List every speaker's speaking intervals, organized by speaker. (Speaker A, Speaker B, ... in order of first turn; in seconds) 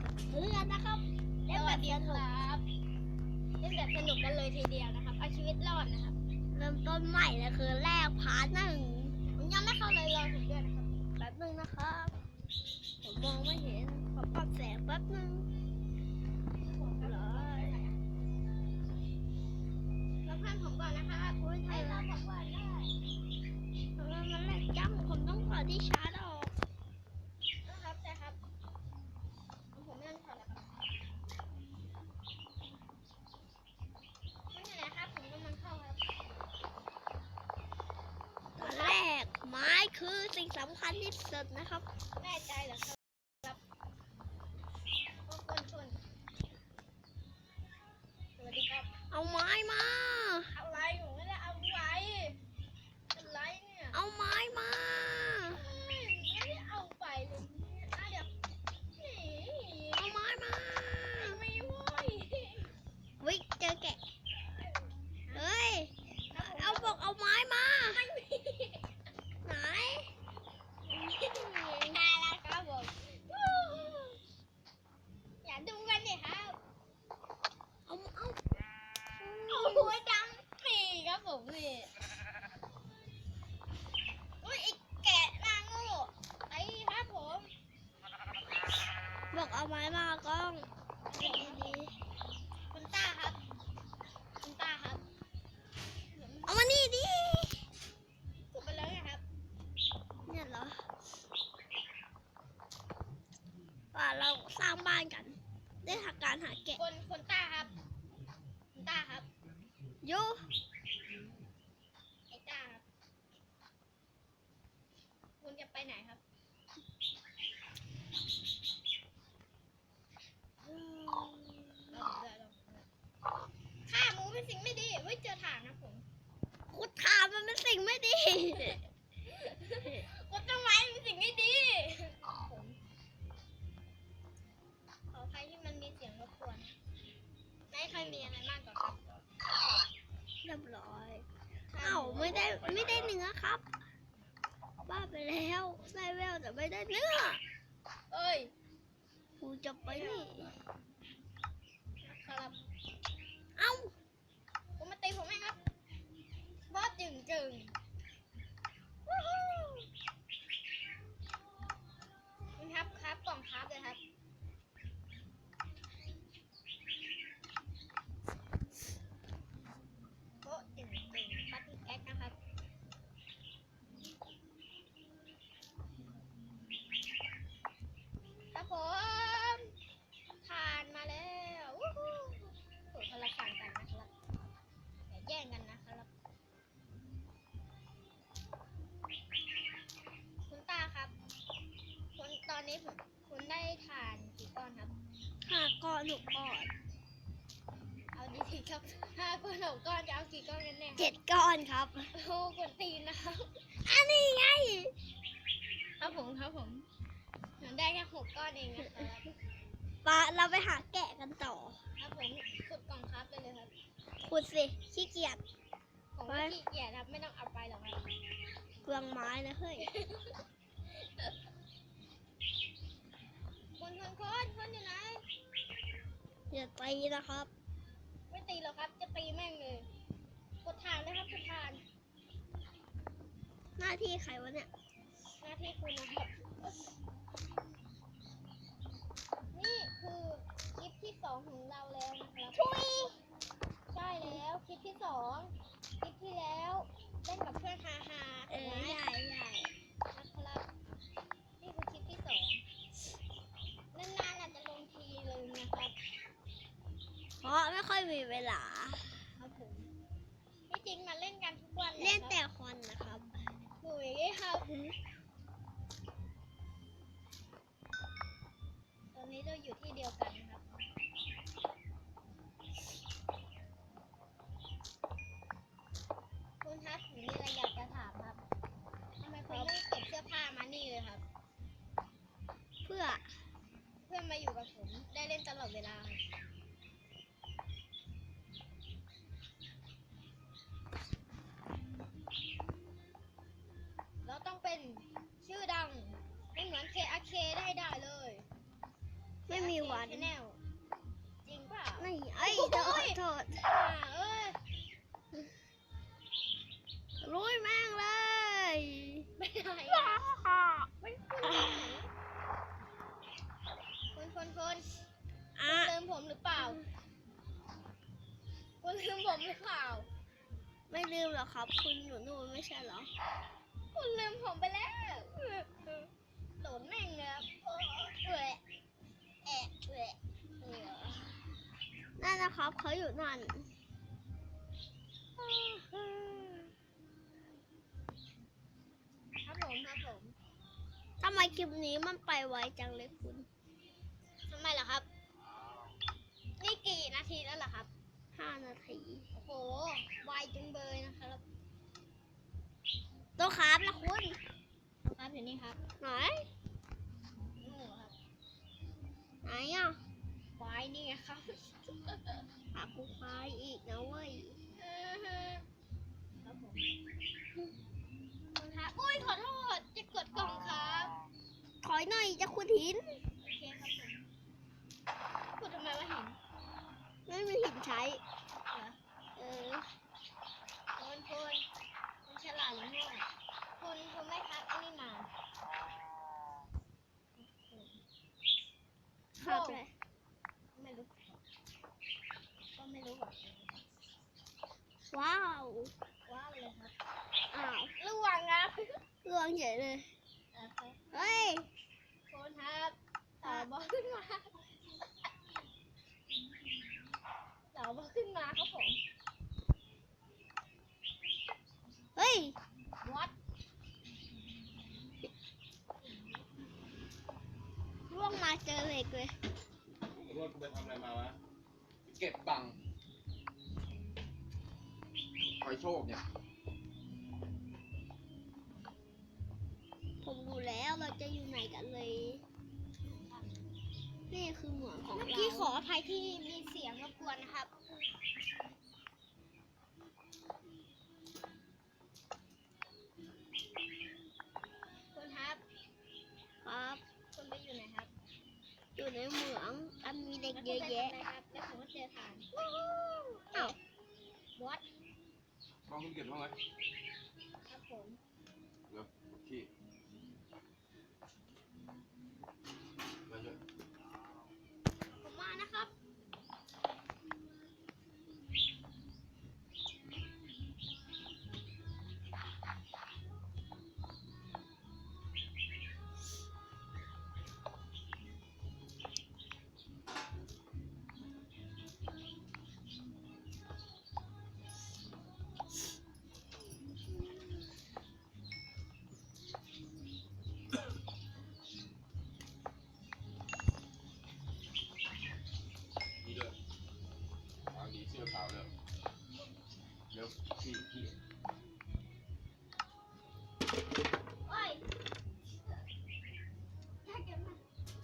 Speaker A: 0.3-2.2, 6.5-9.2, 11.2-12.1, 13.0-15.5, 17.0-17.7, 21.4-22.1, 23.9-26.5, 38.6-41.9, 49.1-50.5, 53.9-55.6, 60.0-61.4, 63.2-64.0, 65.3-68.0, 69.4-70.1, 70.9-72.0, 77.9-78.4, 79.2-80.0, 89.3-91.9, 96.5-97.6, 100.2-100.8, 103.9-106.8, 110.0-110.5, 120.6-122.1, 126.7-128.8, 140.4-141.2, 141.8-143.6, 144.8-147.4, 149.4-150.5, 153.6-153.9, 195.4-196.7, 201.0-202.1, 203.8-204.9, 210.0-211.8, 214.2-215.4, 216.3-216.6, 218.8-219.9, 226.5-227.5, 233.8-234.7, 242.5-243.2, 248.5-249.7, 257.4-259.2, 262.0-263.3, 282.8-283.4, 299.5-300.3, 302.0-303.7, 307.2-309.3, 309.9-310.9, 311.4-311.8, 315.6-315.9, 320.9-323.1, 332.2-333.7, 341.2-343.5, 348.3-349.2, 353.4-354.4, 356.0-356.5, 359.4-360.0, 362.7-364.6, 371.8-373.2, 377.3-378.2, 379.4-379.9, 389.4-389.9, 395.1-395.9, 397.5-397.9, 399.2-400.1, 401.1-401.7, 412.1-412.6, 418.1-419.4, 430.2-432.4, 434.3-435.7, 446.6-447.0, 448.9-451.1
Speaker B: 1.5-2.6, 3.6-6.2, 9.3-10.9, 16.5-18.0, 20.2-22.9, 27.6-28.4, 29.7-30.8, 34.5-36.0, 38.6-39.0, 42.2-43.6, 45.2-46.0, 48.4-48.9, 50.5-52.4, 53.1-54.0, 55.5-58.3, 59.0-60.1, 61.2-62.7, 66.3-67.0, 67.9-68.8, 71.8-74.2, 75.4-76.6, 79.5-81.9, 84.4-87.5, 91.1-91.8, 92.7-93.4, 94.4-95.0, 96.1-96.6, 98.5-99.2, 106.7-107.7, 108.7-109.3, 112.3-112.8, 115.4-116.2, 121.9-122.8, 123.8-126.0, 129.2-132.8, 135.1-136.7, 137.7-139.0, 141.7-142.5, 148.1-148.5, 149.9-150.5, 152.0-152.6, 154.8-155.6, 156.7-157.7, 159.1-159.9, 162.6-164.0, 170.4-172.3, 178.5-179.7, 180.4-184.1, 185.1-186.1, 190.5-191.1, 192.2-194.9, 198.1-201.1, 202.1-203.5, 206.0-206.9, 207.6-209.3, 212.0-213.7, 216.1-218.0, 219.8-220.4, 223.8-225.2, 228.3-229.9, 230.6-231.8, 235.4-236.8, 239.5-242.6, 243.9-249.0, 250.1-250.7, 251.6-252.6, 253.9-255.9, 259.4-259.9, 260.7-262.4, 263.8-264.7, 269.1-270.6, 276.6-278.4, 279.2-281.2, 284.1-286.2, 294.2-298.4, 299.5-300.6, 301.4-304.6, 309.4-310.2, 311.0-312.1, 314.1-314.9, 315.6-316.8, 318.8-320.1, 323.9-328.6, 329.4-331.4, 335.4-336.7, 339.4-340.4, 344.5-345.1, 346.6-347.9, 349.3-351.4, 355.0-355.8, 357.6-358.1, 360.6-362.4, 364.8-365.6, 366.4-366.9, 368.6-371.1, 373.4-374.2, 375.6-376.4, 378.7-379.0, 381.0-381.6, 382.2-383.2, 383.8-385.3, 387.4-388.0, 389.4-389.8, 390.7-391.4, 392.7-393.8, 396.2-396.9, 398.0-399.0, 400.5-401.0, 402.3-404.5, 407.7-409.0, 413.0-413.3, 416.0-416.4, 435.1-437.7, 445.1-445.6, 447.3-448.1, 450.5-453.8, 454.6-454.8, 457.7-458.2, 465.1-465.9, 504.4-504.8, 507.0-507.6
Speaker C: 142.2-143.2, 420.2-421.4, 422.1-422.8, 425.5-426.2, 455.9-456.6, 458.9-459.7, 463.2-463.6, 496.2-496.6, 497.7-498.7, 500.1-501.1